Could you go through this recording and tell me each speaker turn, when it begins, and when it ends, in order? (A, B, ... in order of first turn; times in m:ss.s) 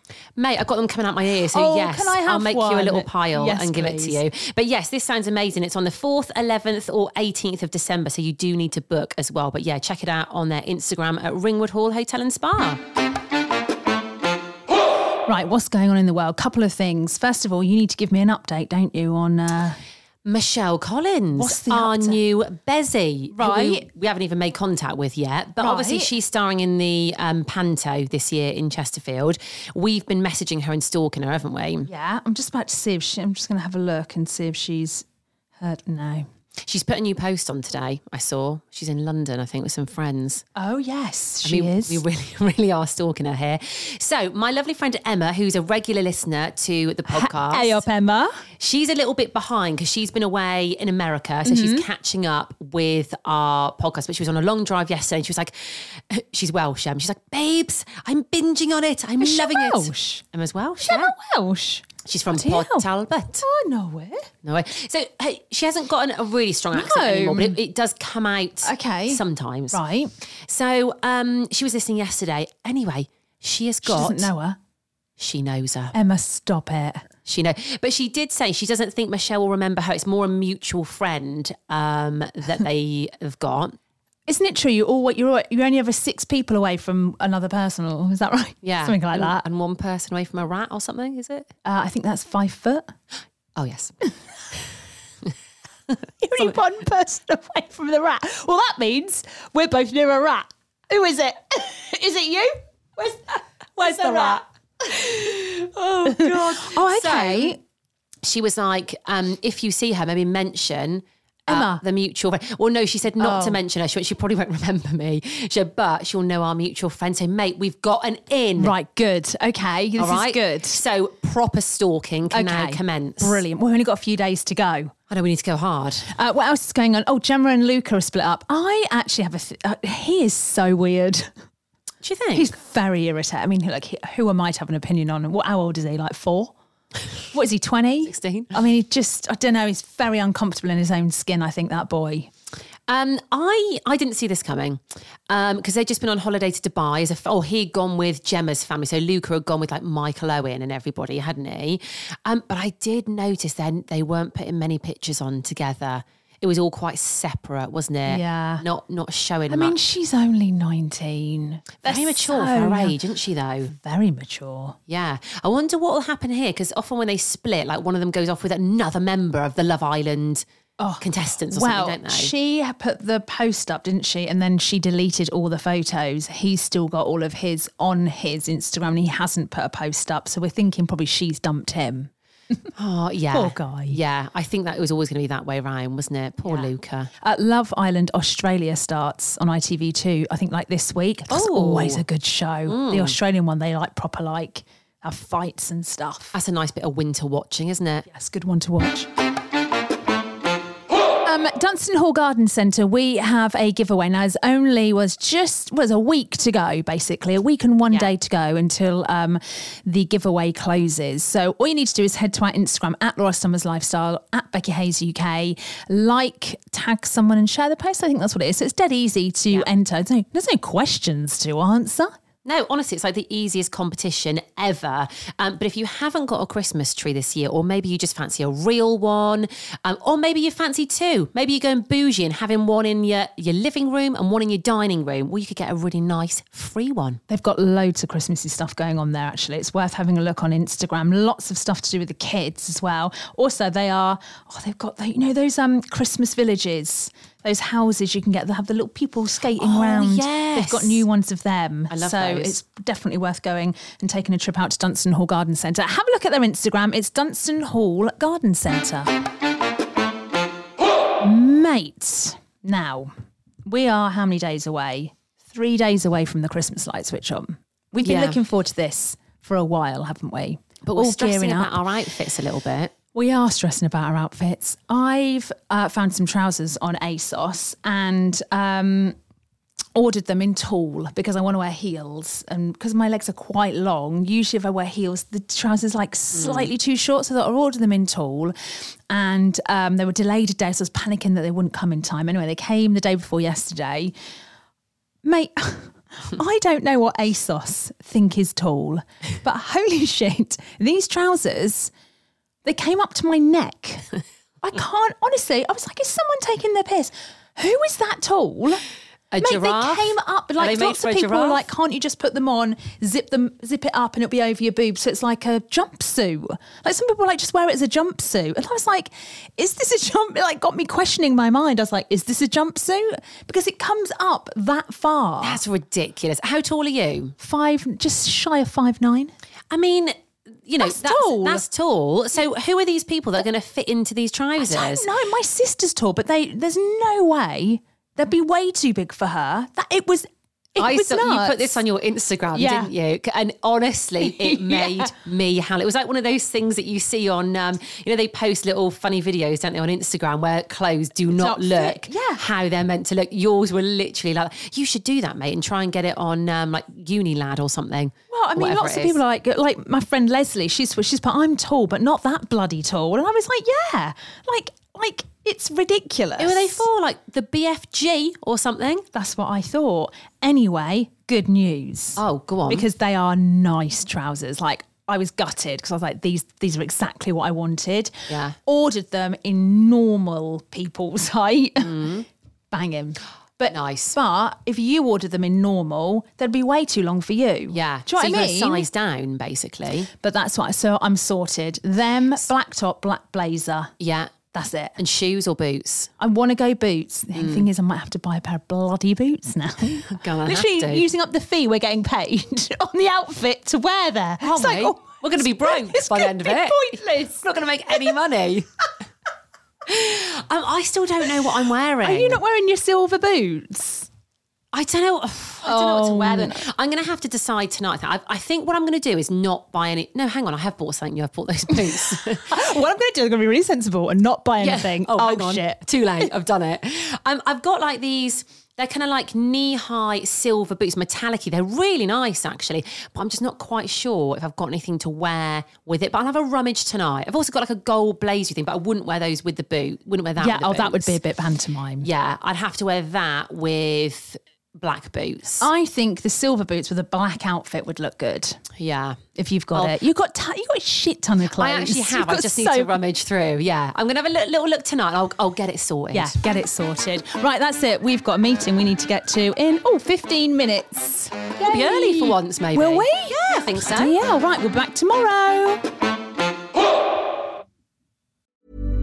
0:00.4-0:12.8 A
0:01.4-0:04.2 B
0:15.3-0:19.8 B
0:20.2-0:31.9 A
0:21.3-0:22.2 B
0:23.3-0:23.9 B
0:25.6-0:26.1 B
0:31.8-0:35.0 B
0:35.6-0:36.2 B
0:36.6-0:40.4 A
0:40.6-0:42.0 B
0:41.4-0:47.8 A
0:47.0-0:48.4 B
0:48.6-1:01.1 A
0:51.4-0:51.8 B
0:59.2-1:00.2 B
1:00.8-1:04.3 B
1:02.0-1:03.4 A
1:04.4-1:09.8 A
1:06.7-1:07.6 B
1:08.6-1:10.1 B
1:10.5-1:14.3 A
1:13.8-1:14.6 B
1:15.2-1:15.9 A
1:15.9-1:17.0 B
1:17.2-1:23.8 A
1:24.3-1:29.4 B
1:28.6-1:31.5 A
1:31.6-1:32.8 B
1:33.6-1:33.9 A
1:36.2-1:44.4 B
1:43.8-1:47.6 A
1:46.0-1:47.6 B
1:48.2-1:58.7 A
1:51.5-1:51.8 B
1:53.2-1:53.6 B
1:58.6-2:00.8 B
2:00.0-2:03.4 A
2:02.3-2:04.9 B
2:05.1-2:06.1 A
2:06.1-2:11.3 B
2:12.0-2:12.5 A
2:12.3-2:16.5 B
2:17.3-2:22.3 B
2:18.0-2:18.5 A
2:22.9-2:39.8 A
2:38.1-2:38.6 B
2:39.5-2:43.0 B
2:41.8-2:43.7 A
2:43.6-2:44.8 B
2:44.9-2:50.4 A
2:50.8-3:02.7 B
2:51.0-2:52.3 A
3:02.8-3:07.1 A
3:03.3-3:04.0 B
3:06.4-3:16.4 B
3:11.3-3:12.0 A
3:12.7-3:13.2 A
3:16.3-3:18.1 A
3:18.1-3:19.1 B
3:21.2-3:42.1 B
3:42.4-3:57.2 A
3:57.3-4:19.1 B
4:09.5-4:11.0 A
4:11.9-4:12.6 A
4:21.2-4:23.1 B
4:23.6-4:31.9 B
4:28.0-4:28.4 A
4:30.8-4:32.9 A
4:33.1-4:39.1 B
4:39.9-4:54.1 B
4:46.3-4:46.7 A
4:55.2-5:01.9 B
5:02.6-5:08.8 B
5:09.3-5:11.7 A
5:09.4-5:25.6 B
5:25.4-5:27.3 A
5:27.4-5:29.3 B
5:29.7-5:35.1 A
5:30.8-5:31.6 B
5:34.6-5:41.8 B
5:40.8-5:59.2 A
5:42.5-5:42.9 B
5:44.2-5:45.1 B
5:51.3-5:52.4 B
5:58.3-6:06.9 B
6:06.4-6:09.0 A
6:09.1-6:28.9 B
6:12.1-6:12.8 A
6:18.3-6:18.6 A
6:21.8-6:22.2 A
6:23.7-6:24.2 A
6:27.7-6:30.1 A
6:30.2-6:33.9 B
6:34.0-6:34.4 A
6:34.5-6:35.0 B
6:35.0-6:36.1 A
6:36.2-6:48.1 B
6:37.3-6:37.7 A
6:40.1-6:41.0 A
6:44.4-6:48.7 A
6:49.9-6:52.4 A
6:52.0-6:54.1 B
6:54.7-7:02.7 A
6:55.6-6:56.6 B
7:02.3-7:06.3 B
7:04.6-7:21.2 A
7:20.4-7:22.1 B
7:22.0-7:25.7 A
7:25.6-7:28.6 B
7:28.8-7:29.2 A
7:29.3-7:33.0 B
7:29.7-7:30.0 A
7:31.4-7:36.4 A
7:36.1-7:45.8 B
7:41.6-7:44.1 A